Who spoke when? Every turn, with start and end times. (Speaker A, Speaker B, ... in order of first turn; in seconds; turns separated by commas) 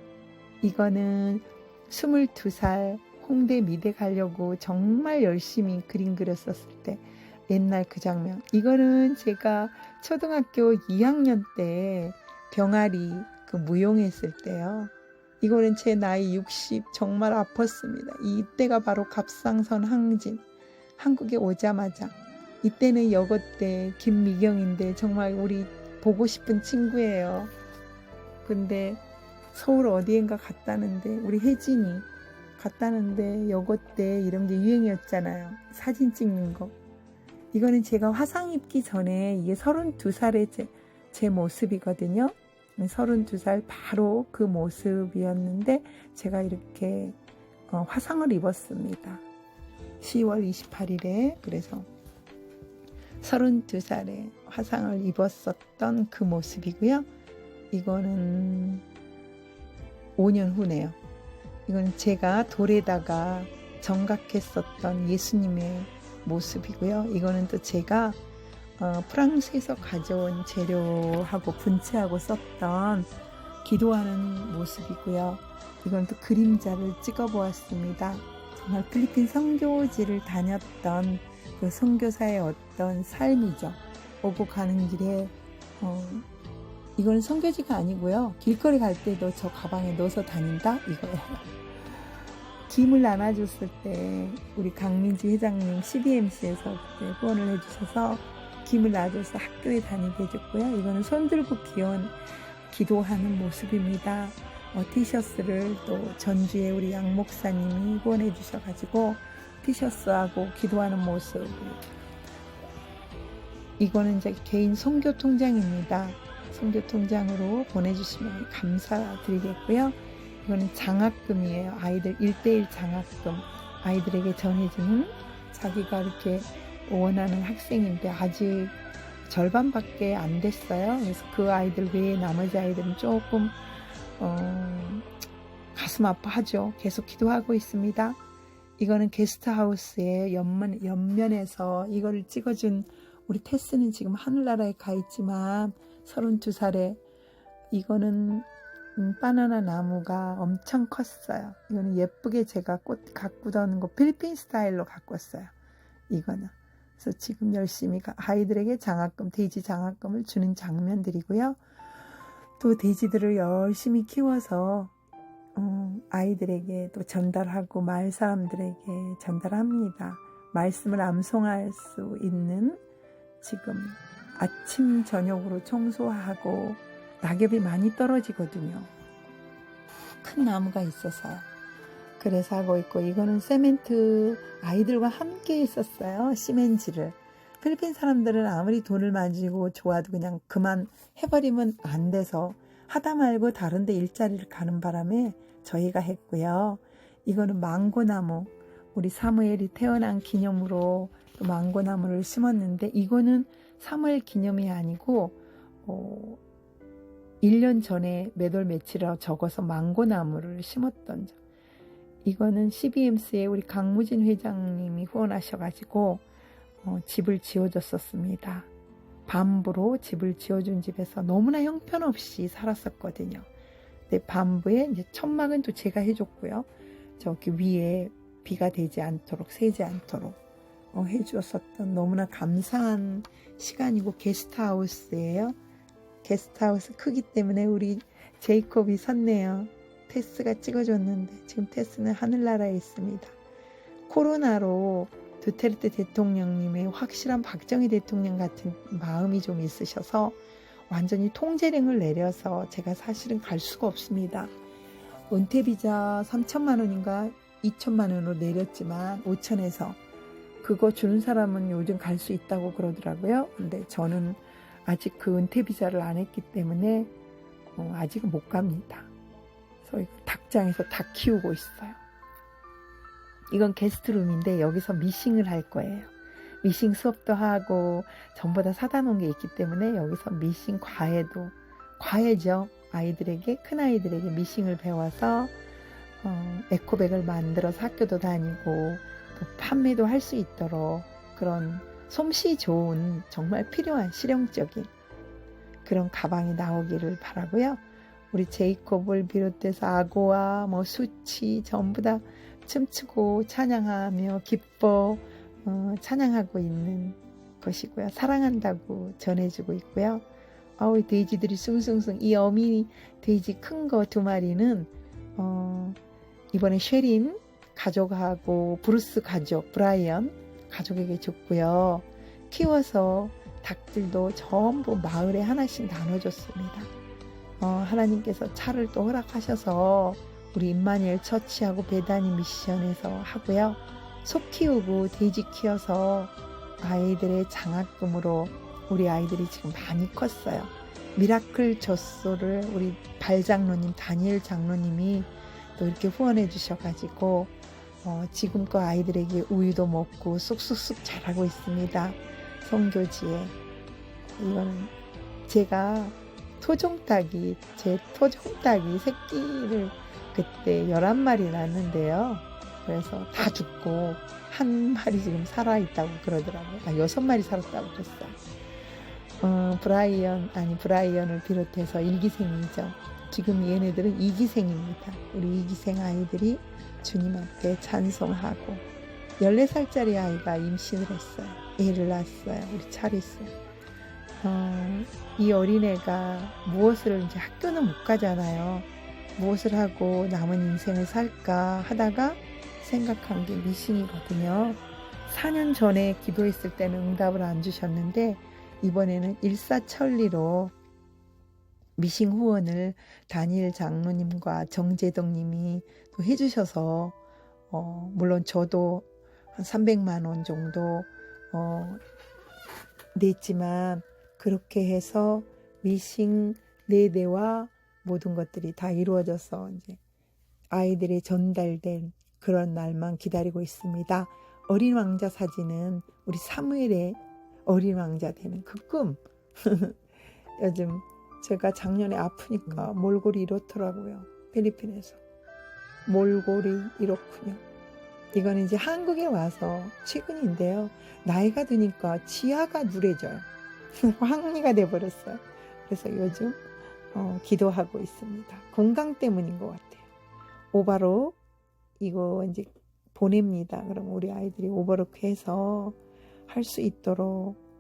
Speaker A: 0.6-20.4, Speaker A: 21.0-27.5, Speaker A: 28.4-36.7, Speaker A: 37.5-47.2, Speaker A: 47.7-49.2, Speaker A: 50.0-51.9, Speaker A: 53.2-57.1, Speaker A: 57.7-58.8, Speaker A: 60.2-61.0, Speaker A: 61.7-68.2, Speaker A: 68.8-73.1, Speaker A: 73.6-86.3, Speaker A: 87.0-91.5, Speaker A: 92.7-102.2, Speaker A: 102.7-111.8, Speaker A: 113.8-128.8, Speaker A: 129.3-133.6, Speaker A: 134.2-135.1, Speaker A: 135.8-138.2, Speaker A: 138.8-147.0, Speaker A: 147.7-155.5, Speaker A: 156.1-161.6, Speaker A: 162.6-164.9, Speaker A: 165.6-172.8, Speaker A: 173.4-178.9, Speaker A: 180.2-181.5, Speaker A: 182.2-206.4, Speaker A: 207.4-211.4, Speaker A: 212.2-216.2, Speaker A: 216.8-218.7, Speaker A: 219.3-223.5, Speaker A: 224.1-226.7, Speaker A: 227.2-230.4, Speaker A: 230.9-235.6, Speaker A: 236.2-243.3, Speaker A: 244.1-250.4, Speaker A: 250.9-254.5, Speaker A: 255.3-260.0, Speaker A: 260.6-267.1, Speaker A: 267.8-269.1, Speaker A: 269.8-272.0, Speaker A: 273.5-276.1, Speaker A: 276.6-285.5, Speaker A: 286.2-294.9, Speaker A: 295.9-310.2, Speaker A: 310.8-316.0, Speaker A: 316.5-326.9, Speaker A: 327.6-353.6, Speaker A: 354.3-354.9, Speaker A: 355.5-368.4, Speaker A: 369.4-378.9, Speaker A: 379.4-383.5, Speaker A: 384.4-400.7, Speaker A: 402.0-407.2, Speaker A: 407.7-412.0, Speaker A: 413.1-420.0, Speaker A: 420.7-430.0, Speaker A: 430.6-435.2, Speaker A: 436.1-437.6, Speaker A: 438.3-443.5, Speaker A: 444.0-446.6, Speaker A: 447.1-450.1, Speaker A: 450.7-451.4, Speaker A: 452.0-456.0, Speaker A: 456.5-457.6